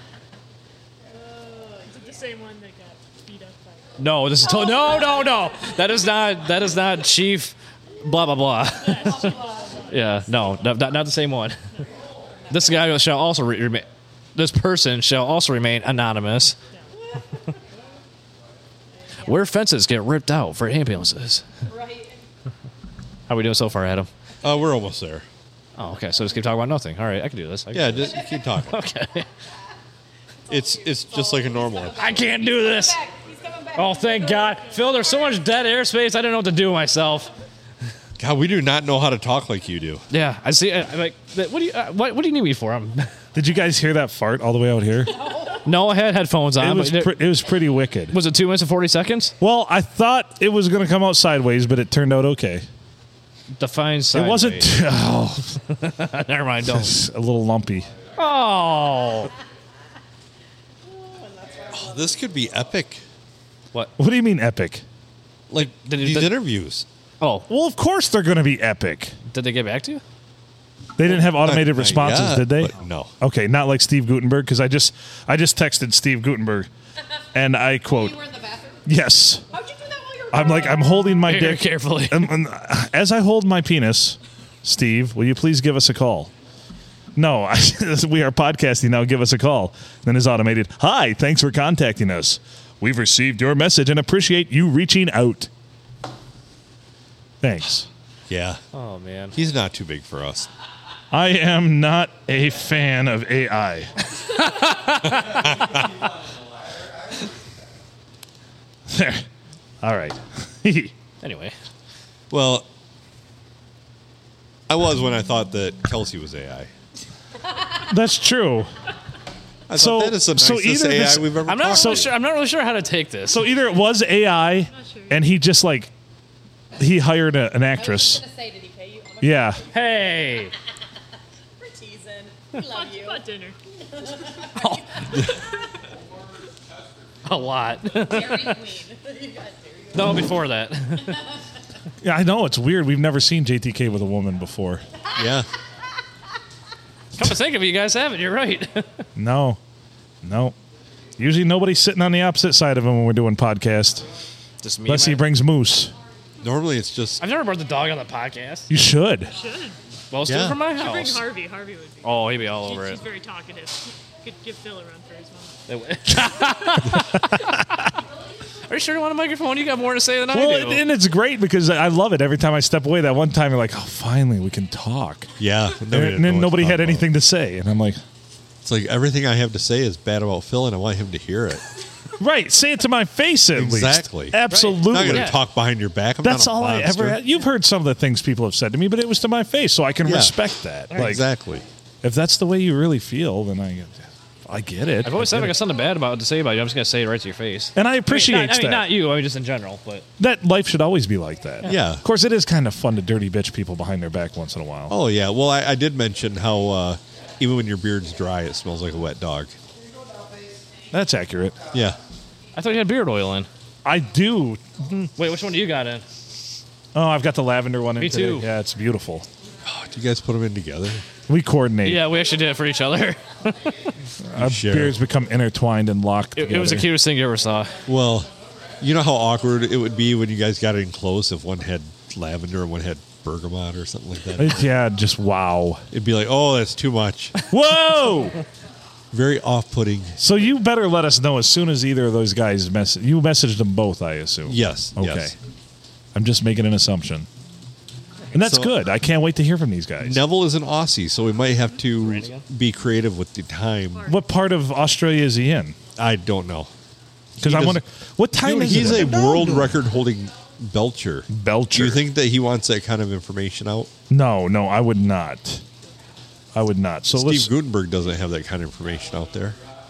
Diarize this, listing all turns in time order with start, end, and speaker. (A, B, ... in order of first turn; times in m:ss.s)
0:01.1-0:01.9 A
0:01.9-0:03.8 B
0:04.0-0:11.6 C
0:04.4-0:06.0 A
0:08.8-0:10.3 A
0:09.1-0:09.3 B
0:12.5-0:16.6 C
0:19.2-0:21.4 C
0:21.6-0:22.2 A
0:23.3-0:24.1 C
0:24.4-0:25.3 D
0:25.8-0:29.3 C
0:27.7-0:28.8 D
0:30.5-0:35.4 A
0:30.5-0:32.2 D
0:32.0-0:33.0 C
0:33.7-0:37.3 C
0:38.2-0:40.0 D
0:40.1-0:43.1 C
0:43.3-0:45.2 E
0:45.2-0:45.6 A
0:45.6-0:47.3 C
0:46.6-0:48.2 E
0:48.1-0:49.3 C
0:49.4-0:52.6 E
0:53.6-0:54.7 C
0:54.1-0:55.6 E
0:55.7-0:57.0 C
0:56.6-0:57.9 E
0:58.2-0:59.3 C
1:00.8-1:02.3 A
1:01.7-1:03.0 D
1:04.0-1:04.8 E
1:05.5-1:06.9 D
1:05.6-1:06.4 C
1:07.2-1:07.5 C
1:07.5-1:09.1 E
1:09.3-1:10.0 C
1:11.0-1:16.7 E
1:11.1-1:13.1 D
1:17.3-1:18.2 E
1:17.8-1:18.8 A
1:18.9-1:19.4 E
1:19.5-1:21.2 A
1:20.3-1:26.3 E
1:21.3-1:22.3 C
1:27.2-1:35.5 E
1:37.4-1:37.9 E
1:38.3-1:38.6 D
1:38.7-1:39.3 C
1:39.3-1:40.5 D
1:41.1-1:43.9 E
1:44.2-1:45.5 C
1:45.1-1:46.0 D
1:48.9-1:49.2 E
1:49.8-1:50.9 E
1:51.2-1:51.6 C
1:52.3-1:52.7 D
1:54.7-1:56.7 D
1:57.8-1:58.7 E
1:59.7-2:02.1 D
1:59.8-2:02.1 E
2:01.4-2:03.4 C
2:03.3-2:05.9 E
2:04.7-2:05.2 B
2:06.8-2:08.2 E
2:07.7-2:09.6 A
2:09.2-2:09.6 E
2:09.7-2:10.5 C
2:11.6-2:13.2 A
2:12.6-2:13.6 B
2:14.0-2:15.4 A
2:14.6-2:15.0 C
2:17.2-2:18.6 C
2:17.9-2:20.2 A
2:20.0-2:21.2 C
2:22.0-2:24.8 E
2:25.1-2:25.5 D
2:27.2-2:29.0 C
2:29.2-2:29.6 E
2:30.2-2:30.6 E
2:31.2-2:34.0 E
2:34.6-2:35.2 C
2:34.9-2:35.9 E
2:36.4-2:37.2 D
2:37.2-2:38.7 C
2:38.7-2:39.3 E
2:39.3-2:39.8 B
2:40.1-2:41.3 C
2:40.2-2:40.6 D
2:40.7-2:45.6 B
2:42.0-2:43.0 C
2:45.7-2:47.6 C
2:46.8-2:47.7 E
2:48.7-2:50.9 C
2:50.3-2:55.3 E
2:55.4-2:57.1 D
2:55.9-2:58.0 E
2:58.6-3:01.6 D
3:02.2-3:05.3 E
3:03.5-3:07.2 D
3:04.5-3:05.4 C
3:06.2-3:11.2 E
3:10.0-3:10.4 D
3:10.9-3:11.6 D
3:12.0-3:15.6 E
3:15.0-3:20.0 C
3:17.8-3:18.9 E
3:20.2-3:25.0 E
3:21.6-3:22.0 D
3:24.9-3:29.6 D
3:30.9-3:31.6 E
3:32.6-3:33.5 C
3:33.8-3:35.1 E
3:35.2-3:36.0 C
3:37.0-3:39.3 E
3:38.0-3:38.5 C
3:39.6-3:41.0 D
3:41.3-3:42.1 E
3:41.8-3:43.9 C
3:44.2-3:46.9 E
3:44.4-3:45.0 D
3:46.4-3:47.7 C
3:47.9-3:54.6 D
3:54.4-3:55.8 E
3:55.9-3:57.3 D
3:57.5-3:58.4 E
3:59.1-4:00.2 D
4:00.2-4:05.3 E
4:04.4-4:05.3 D
4:06.1-4:07.3 E
4:08.3-4:10.2 E
4:08.3-4:08.8 D
4:10.0-4:14.1 D
4:12.0-4:12.4 C
4:14.0-4:15.8 E
4:16.0-4:16.7 D
4:17.4-4:17.8 D
4:17.4-4:19.4 E
4:18.4-4:23.9 D
4:21.3-4:22.0 E
4:24.1-4:25.6 E
4:26.6-4:27.5 E
4:27.1-4:29.6 D